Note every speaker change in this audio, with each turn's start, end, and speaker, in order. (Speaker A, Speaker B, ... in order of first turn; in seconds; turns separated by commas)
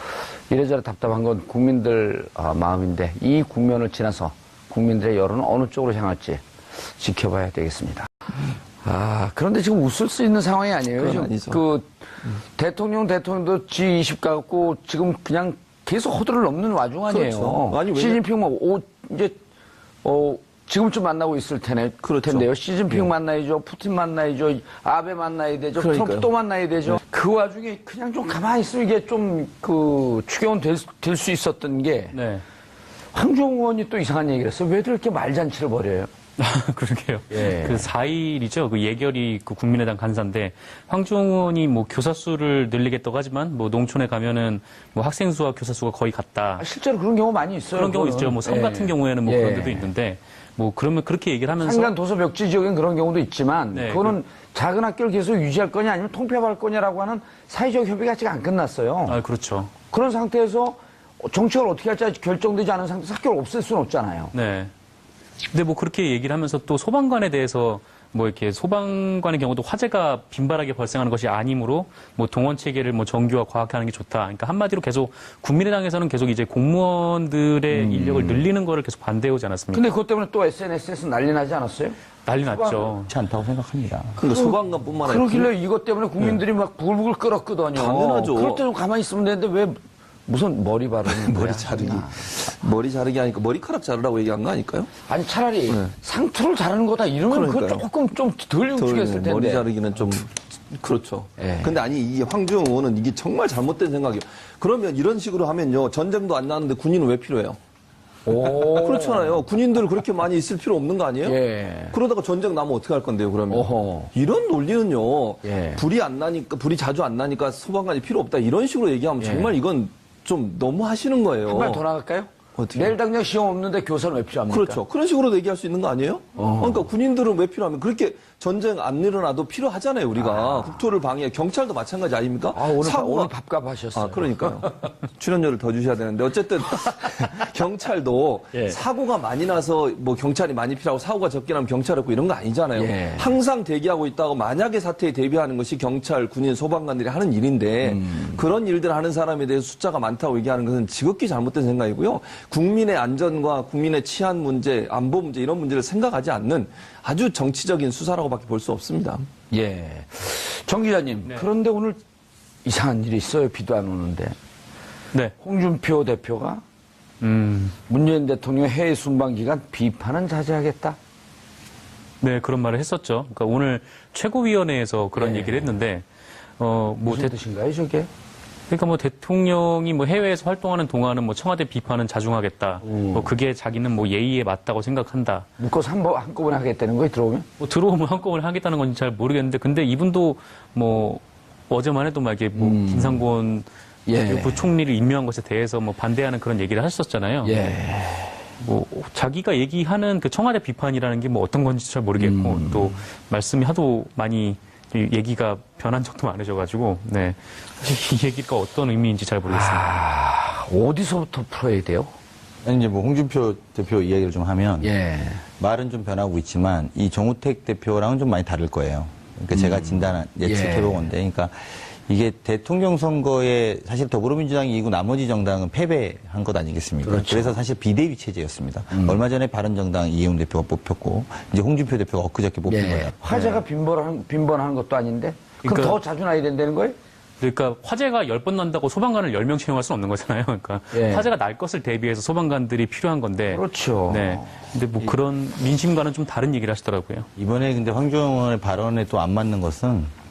Speaker A: 0.5-6.4, Speaker A: 7.0-8.1, Speaker A: 8.8-11.9, Speaker B: 11.0-11.6, Speaker A: 12.6-19.4, Speaker B: 17.1-18.2, Speaker A: 20.0-32.2, Speaker B: 22.0-23.1, Speaker B: 25.8-26.3, Speaker C: 32.1-32.4, Speaker A: 33.1-36.1, Speaker C: 36.4-46.6, Speaker A: 37.3-37.9, Speaker A: 46.6-49.9, Speaker C: 47.7-51.9, Speaker A: 51.6-59.2, Speaker C: 53.7-54.2, Speaker C: 59.1-59.7, Speaker A: 59.9-64.3, Speaker C: 64.3-64.7, Speaker C: 65.5-79.8, Speaker A: 77.8-78.4, Speaker A: 79.7-82.9, Speaker C: 82.3-83.1, Speaker D: 83.1-84.2, Speaker B: 84.2-85.5, Speaker A: 84.3-92.4, Speaker B: 87.7-88.7, Speaker B: 91.1-94.9, Speaker A: 95.0-99.7, Speaker B: 97.3-97.9, Speaker B: 98.8-107.6, Speaker A: 101.4-101.8, Speaker A: 108.3-109.4, Speaker B: 108.4-111.4, Speaker A: 111.2-112.0, Speaker B: 111.9-121.8, Speaker A: 113.5-114.1, Speaker A: 115.4-115.8, Speaker A: 119.2-119.6, Speaker A: 121.4-124.8, Speaker B: 122.6-123.0, Speaker B: 124.5-133.3, Speaker A: 126.4-126.9, Speaker A: 130.2-130.8, Speaker A: 132.5-134.9, Speaker B: 133.9-159.3, Speaker A: 142.7-143.4, Speaker A: 147.8-148.4, Speaker A: 159.5-162.0, Speaker A: 162.7-164.4, Speaker A: 165.4-166.6, Speaker C: 167.2-167.8, Speaker A: 167.9-171.0, Speaker C: 172.2-176.1, Speaker A: 175.2-175.7, Speaker C: 176.6-177.4, Speaker A: 177.1-178.1, Speaker C: 178.7-185.5, Speaker A: 182.8-183.3, Speaker A: 185.6-187.5, Speaker C: 187.6-197.7, Speaker A: 192.6-193.2, Speaker A: 194.1-194.7, Speaker A: 197.4-198.4, Speaker C: 198.6-210.0, Speaker A: 202.2-203.0, Speaker A: 209.5-212.1, Speaker D: 212.6-214.9, Speaker A: 214.8-215.4, Speaker D: 215.6-233.6, Speaker A: 219.5-221.1, Speaker A: 227.0-227.6, Speaker A: 228.9-229.2, Speaker A: 232.7-237.0, Speaker C: 235.6-236.0, Speaker C: 237.4-247.3, Speaker A: 240.9-241.3, Speaker A: 243.5-245.1, Speaker D: 247.4-250.1